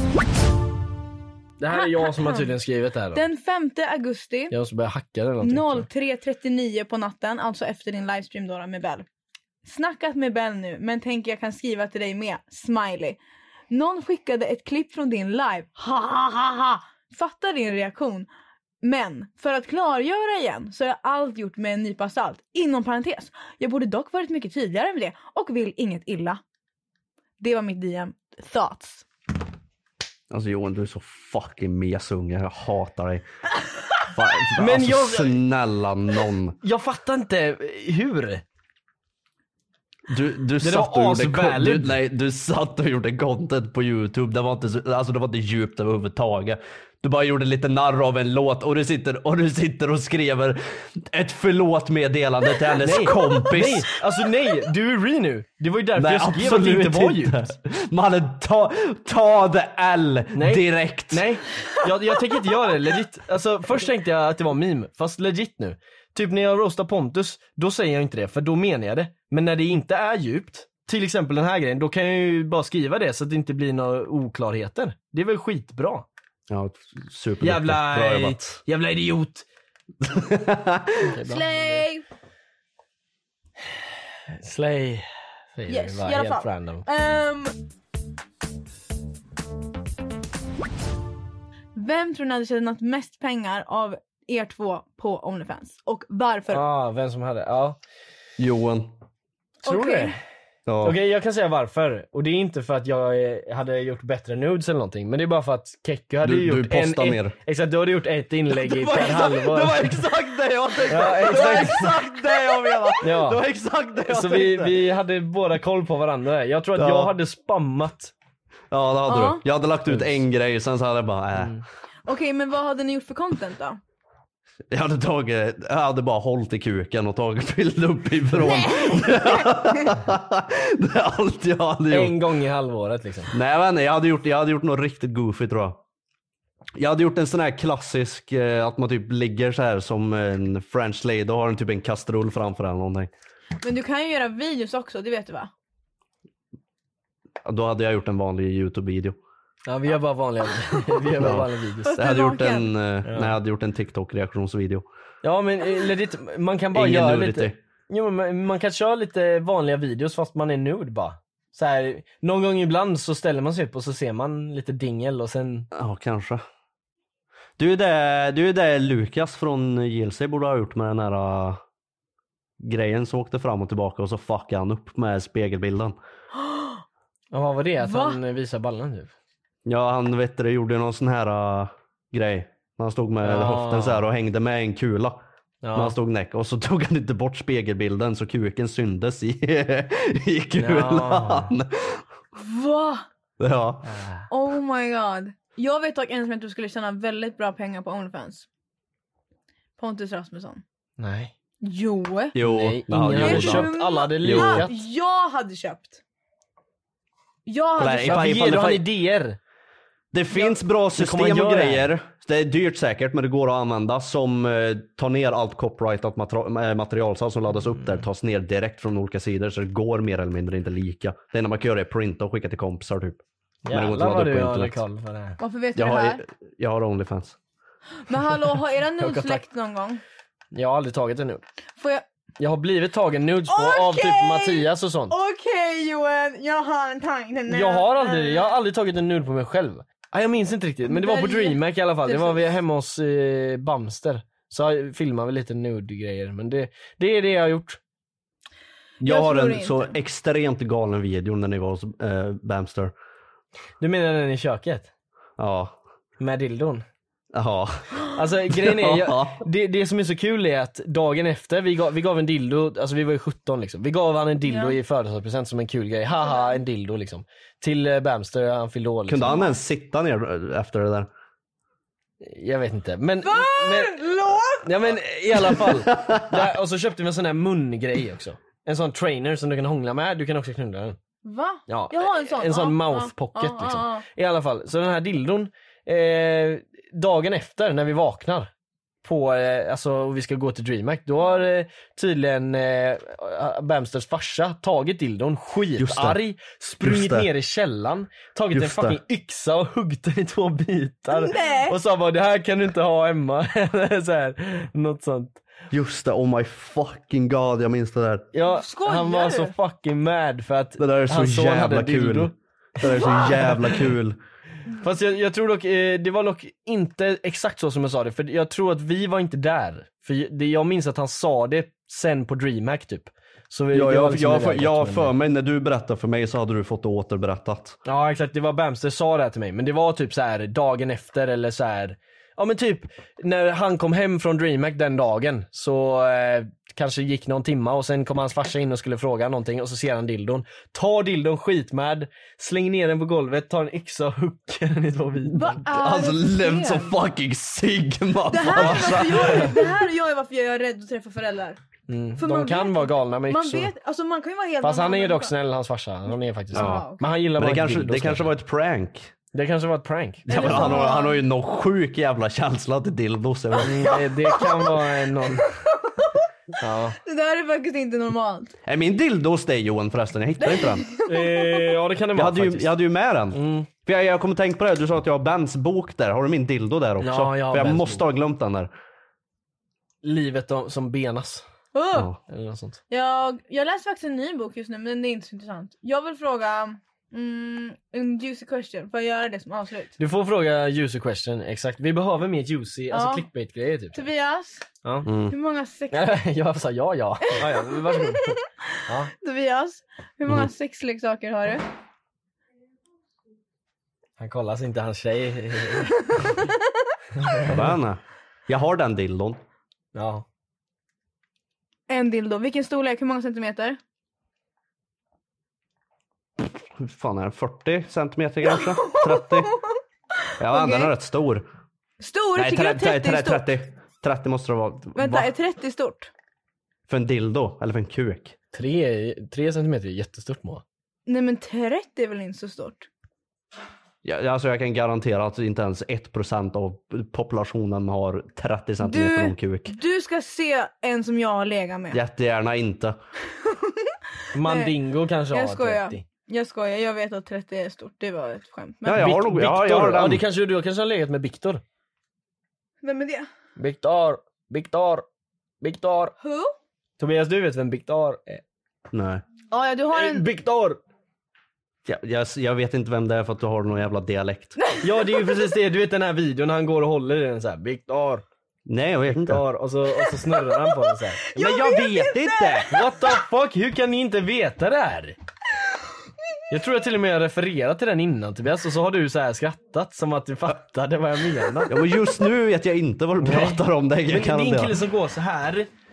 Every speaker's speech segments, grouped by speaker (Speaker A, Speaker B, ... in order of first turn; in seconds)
Speaker A: 1.6-3.2, 4.5-5.9, 34.5-35.4, 36.6-38.4, 40.6-42.0, 52.8-57.5, 60.3-76.1, 77.4-79.5, 81.0-81.8, 83.7-86.8, 96.5-97.8, 99.6-100.2, 100.8-110.0, 110.9-112.0, 113.0-113.4, 114.1-118.1, 119.9-120.2, 121.4-121.6, 131.9-133.3, 149.7-152.0, 153.0-153.3, 155.2-165.7, 177.3-179.1, 183.2-184.1, 185.6-185.9, 190.6-191.5, 193.8-194.2, 201.0-201.3, 202.4-204.7, 208.0-209.4, 210.9-211.9, 223.6-225.4, 229.0-229.4, 230.5-231.4, 232.4-235.1, 237.5-247.8, 253.8-254.9, 256.2-256.8, 258.1-269.4, 272.2-274.0, 274.6-281.0, 281.7-288.5, 289.0-305.4, 308.3-313.8, 314.7-325.1, 327.8-345.6, 348.5-349.5, 351.9-353.7, 354.6-358.3, 359.3-360.8, 363.6-365.5, 366.6-366.9, 371.0-372.7, 373.3-373.7, 377.0-378.0, 380.0-381.4, 382.3-382.8, 390.0-394.0, 395.9-399.1, 404.2-406.0, 407.3-407.7, 409.9-410.2, 428.5-430.6, 444.3-446.0, 448.9-451.6, 453.6-455.1, 455.6-456.1, 457.0-458.4, 459.9-460.8, 464.8-468.2, 469.1-471.3, 472.6-475.1, 476.5-481.7, 483.2-485.7
Speaker B: 1.7-2.5, 3.1-4.5, 5.4-9.1, 9.6-18.3, 18.8-26.4, 27.4-29.1, 81.2-82.0, 85.7-87.5, 91.7-96.6, 99.6-100.2, 119.1-119.4, 122.0-123.8, 128.4-129.9, 143.6-145.5, 150.7-151.0, 151.8-152.7, 176.3-176.8, 177.8-178.2, 192.3-193.1, 194.3-198.4, 199.8-200.6, 201.6-202.3, 203.1-206.0, 207.4-208.4, 225.4-226.2, 228.0-230.0, 231.8-232.0, 233.5-238.5, 240.9-242.5, 249.0-249.9, 264.4-264.8, 266.2-266.6, 269.2-269.6, 273.2-274.9, 281.2-284.0, 301.1-301.8, 308.4-309.5, 345.3-346.9, 348.3-351.6, 352.2-355.3, 356.5-357.0, 360.3-361.2, 363.6-366.3, 367.0-368.5, 370.4-371.7, 381.7-382.1, 382.9-389.9, 392.9-393.3, 393.9-394.6, 395.3-396.2, 397.2-398.4, 399.1-401.6, 406.1-406.6, 411.9-413.8, 418.4-419.7, 420.5-420.9, 422.0-423.5, 424.9-426.1, 431.1-432.9, 438.8-442.0, 443.4-444.7, 445.3-449.1, 452.8-453.3, 456.2-456.5, 459.5-460.3, 470.7-472.7
Speaker C: 30.3-33.2, 34.0-36.5, 40.1-53.9, 56.0-61.3, 76.5-78.6, 80.0-81.1, 98.4-98.9, 100.7-101.0, 106.2-107.4, 108.5-114.8, 116.8-117.1, 118.7-121.6, 124.7-132.2, 133.3-135.8, 136.8-143.1, 147.4-149.2, 151.2-154.8, 156.7-157.6, 165.7-166.4, 167.6-171.6, 172.6-175.9, 179.7-185.2, 185.7-192.0, 193.4-193.9, 202.3-203.7, 204.2-204.7, 207.8-208.9, 210.1-224.8, 225.8-227.3, 249.0-252.9, 255.4-255.7, 257.3-259.4, 269.1-271.1, 275.9-276.4, 295.8-296.2, 296.8-297.3, 298.5-299.0, 305.7-308.3, 310.8-314.2, 323.7-327.8, 345.6-349.7, 356.5-359.1, 360.3-363.9, 368.6-370.9, 372.1-378.7, 395.0-395.3, 407.4-409.4, 416.4-419.5, 420.4-421.4, 422.4-425.3, 426.9-428.4, 434.0-439.7, 441.9-443.0, 448.8-450.2, 458.9-459.2, 461.9-464.6, 468.7-469.4, 471.3-472.7, 481.7-484.8